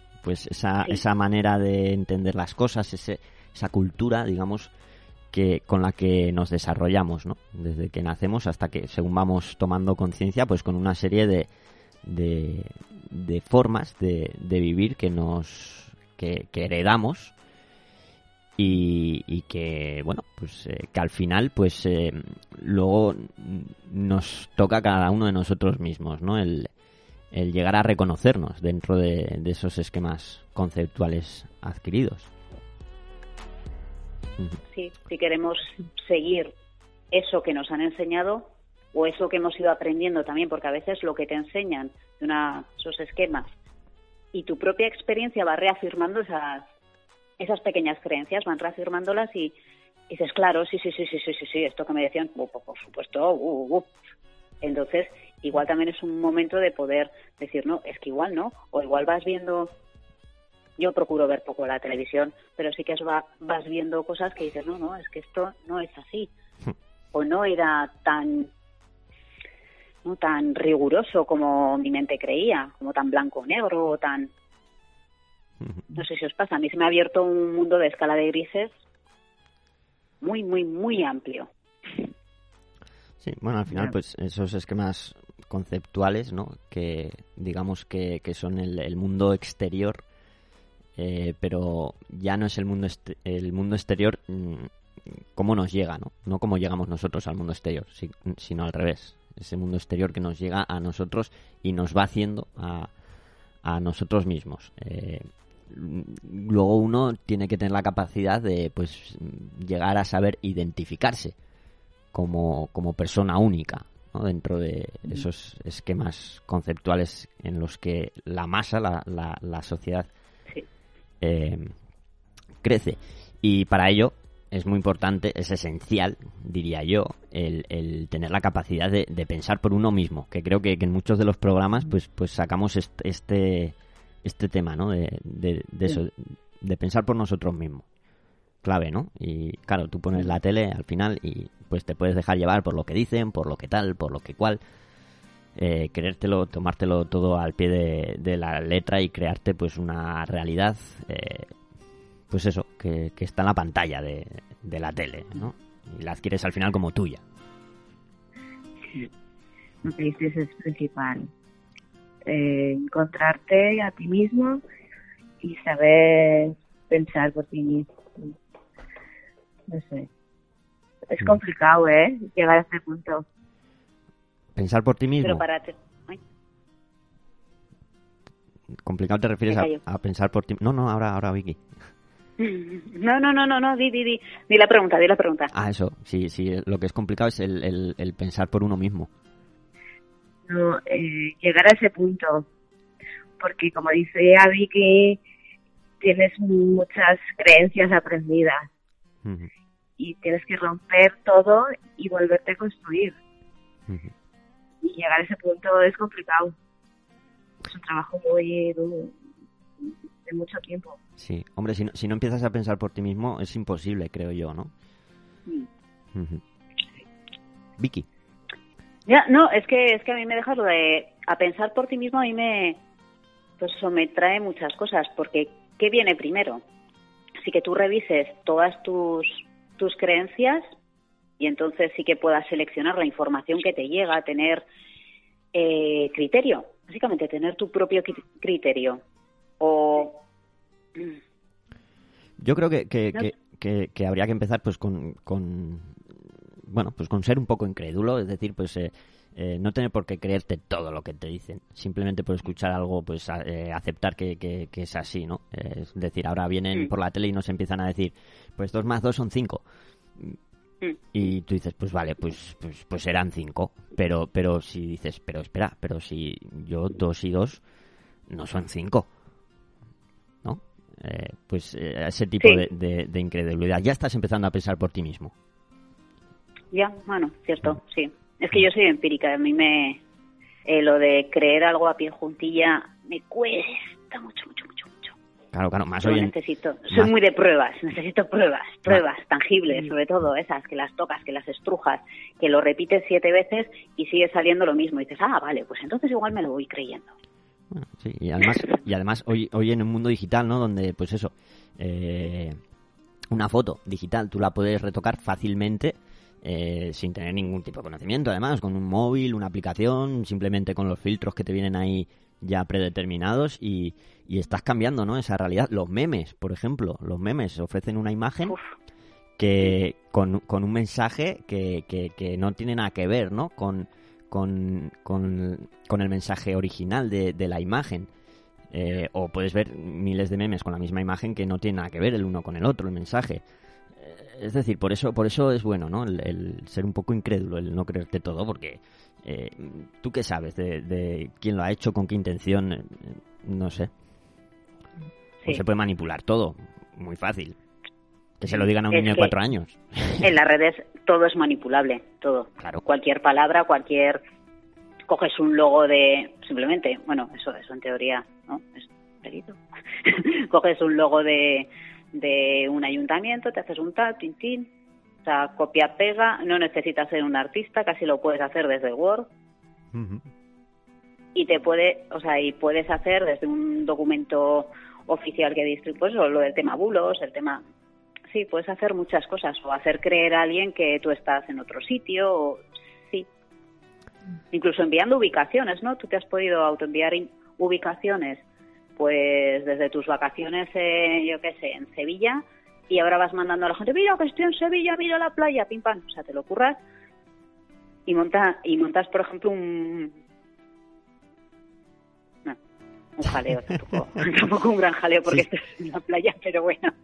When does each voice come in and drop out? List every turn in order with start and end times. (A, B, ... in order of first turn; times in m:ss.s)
0:00.2-0:04.7 A
0:05.3-0:11.5 A
0:12.0-0:17.4 A
0:18.6-0:26.7 A
0:27.3-0:32.3 A
0:34.7-0:36.5 B
0:37.1-0:43.5 B
0:44.3-0:46.7 B
0:47.4-0:49.6 B
0:50.1-0:53.9 B
0:54.6-0:59.7 B
1:00.8-1:06.3 B
1:07.1-1:08.5 B
1:10.0-1:14.3 B
1:15.9-1:18.7 B
1:20.2-1:21.5 B
1:23.2-1:30.0 A
1:31.0-1:42.9 A
1:43.6-1:51.4 A
1:52.1-2:00.1 A
2:01.2-2:01.7 A
2:02.6-2:17.9 A
2:18.6-2:24.6 A
2:25.6-2:31.5 A
2:32.3-2:37.2 A
2:39.8-2:41.3 C
2:42.3-2:44.6 C
2:45.4-2:48.4 C
2:49.7-2:50.1 C
2:51.1-2:53.2 C
2:54.6-2:55.4 A
2:55.2-2:56.2 B
2:58.8-3:01.8 A
2:59.5-2:59.8 B
3:02.4-3:05.5 B
3:05.5-3:09.1 A
3:10.5-3:12.5 C
3:13.4-3:15.2 C
3:16.0-3:18.7 C
3:19.2-3:19.5 A
3:20.0-3:23.2 C
3:23.9-3:24.1 A
3:24.8-3:26.5 C
3:27.6-3:29.2 C
3:29.8-3:31.0 C
3:31.2-3:34.7 A
3:36.1-3:36.4 A
3:37.8-3:38.1 A
3:39.1-3:42.8 B
3:43.6-3:46.6 B
3:47.4-3:50.6 B
3:51.4-3:54.7 B
3:55.5-3:59.0 B
3:59.6-4:00.2 B
4:02.4-4:06.1 A
4:06.6-4:19.6 A
4:21.1-4:27.6 A
4:28.3-4:29.1 A
4:30.4-4:35.3 A
4:32.4-4:32.6 B
4:36.7-4:40.0 B
4:40.7-4:45.2 B
4:45.5-4:46.4 A
4:46.0-4:57.1 B
4:57.7-5:02.6 A
5:03.3-5:18.6 A
5:18.5-5:18.7 B
5:19.4-5:28.1 A
5:28.7-5:33.4 A
5:34.0-5:43.9 A
5:45.4-5:47.6 A
5:48.4-5:50.3 A
5:48.5-5:49.3 B
5:50.2-5:54.2 B
5:55.1-6:04.7 B
6:05.2-6:09.3 B
6:09.9-6:10.2 A
6:11.4-6:17.6 B
6:18.3-6:23.3 B
6:24.5-6:28.4 B
6:29.0-6:36.8 B
6:38.1-6:40.2 B
6:43.2-6:46.9 B